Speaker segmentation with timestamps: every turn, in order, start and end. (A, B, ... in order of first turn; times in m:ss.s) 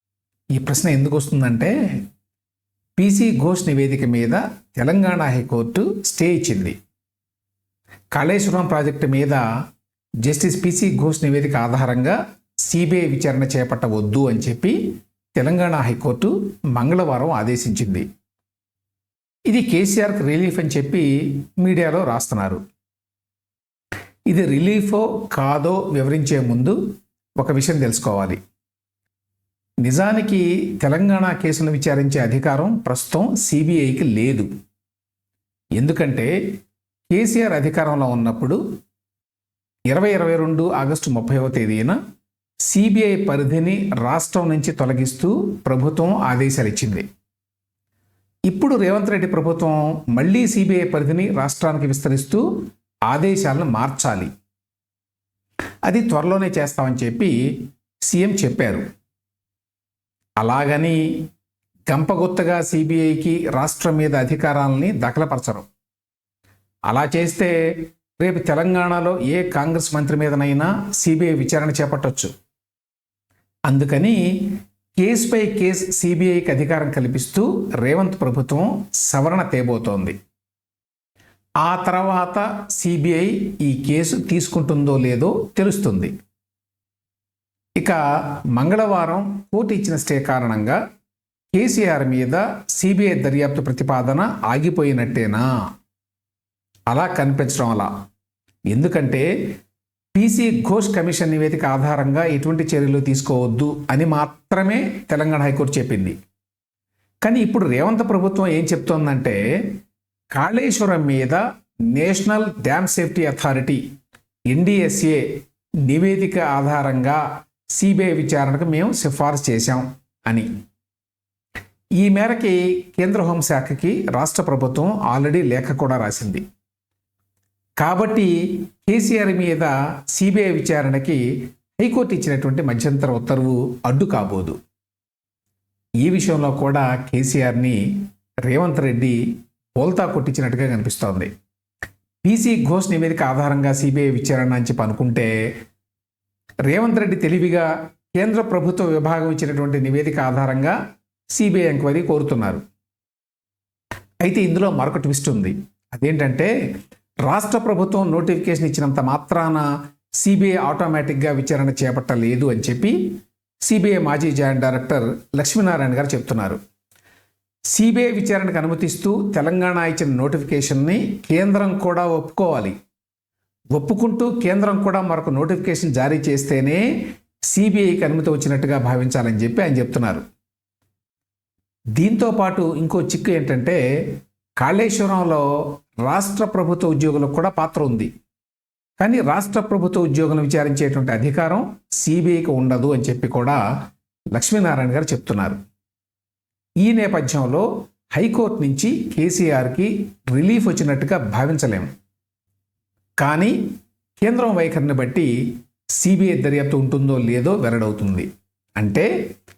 0:00.6-0:01.7 A
0:03.0-0:06.8 A
0:08.1-0:09.4 A
0:10.2-0:18.0 A
0:19.5-0:22.6 A
0:24.3-0:26.8 A
0:27.4-0:28.4 A
0:29.8-0:34.5 A
0:35.8-0:36.3 A
0:37.1-0:38.6 A
0:39.9-0:42.0 A
0:42.6-0:47.0 A
0:48.5-0:54.3 A
0:55.8-0:58.8 A
1:00.4-1:01.0 A
1:01.9-1:05.7 A
1:06.9-1:12.3 A
1:13.7-1:14.2 A
1:15.0-1:20.2 A
1:21.6-1:26.1 A
1:27.8-1:30.8 A
1:31.5-1:35.5 A
1:36.9-1:37.9 A
1:38.7-1:39.2 A
1:40.1-1:46.2 A
1:47.2-1:49.4 A
1:50.3-1:51.4 A
1:51.9-1:53.8 A
1:54.5-1:55.2 A
1:55.8-1:57.2 A
1:57.7-2:00.5 A
2:02.0-2:06.4 A
2:07.8-2:11.2 A
2:11.8-2:14.6 A
2:16.0-2:17.8 A
2:18.5-2:19.2 A
2:19.8-2:21.3 A
2:22.2-2:25.3 A
2:26.7-2:30.8 A
2:31.3-2:32.6 A
2:34.2-2:36.5 A
2:37.2-2:39.6 A
2:40.2-2:43.0 A
2:43.6-2:46.6 A
2:47.7-2:52.8 A
2:53.7-2:56.8 A
2:57.5-3:00.2 A
3:02.0-3:03.8 A
3:04.6-3:05.4 A
3:06.0-3:08.1 A
3:09.0-3:13.6 A
3:14.3-3:15.6 A
3:16.8-3:21.9 A
3:23.2-3:23.6 A
3:24.2-3:25.3 A
3:26.0-3:29.1 A